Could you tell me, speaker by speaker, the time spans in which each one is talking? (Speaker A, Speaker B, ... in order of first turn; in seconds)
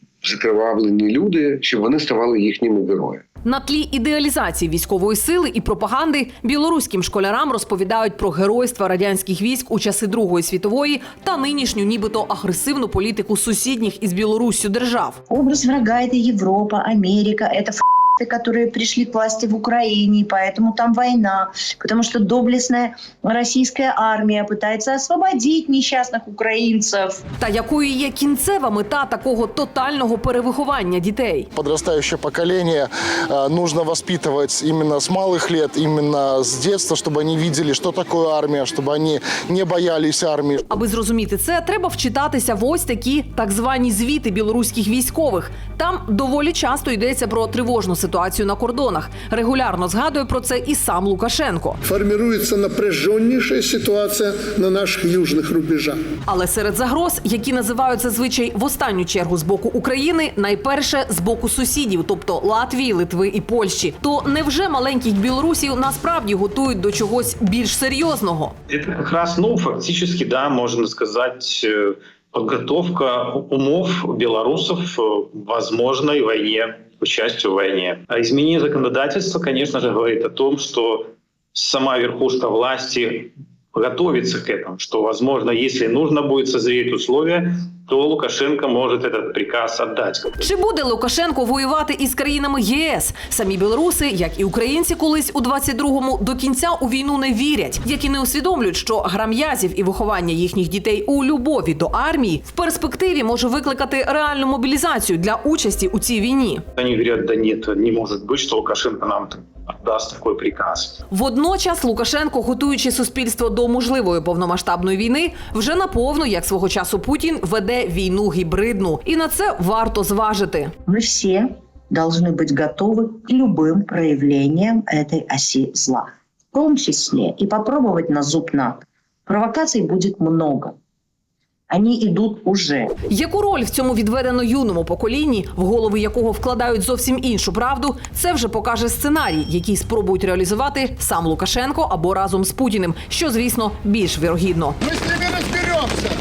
Speaker A: 0.2-3.2
Speaker B: 3.5-15.2, 27.4-31.5, 40.7-51.8, 56.3-68.5, 90.4-106.6, 111.1-120.7, 133.1-144.8
Speaker C: 15.3-27.2, 120.9-130.8, 131.7-132.9
Speaker D: 31.6-40.6, 145.4-146.0
Speaker E: 51.8-56.0
Speaker F: 68.7-90.3, 106.8-111.0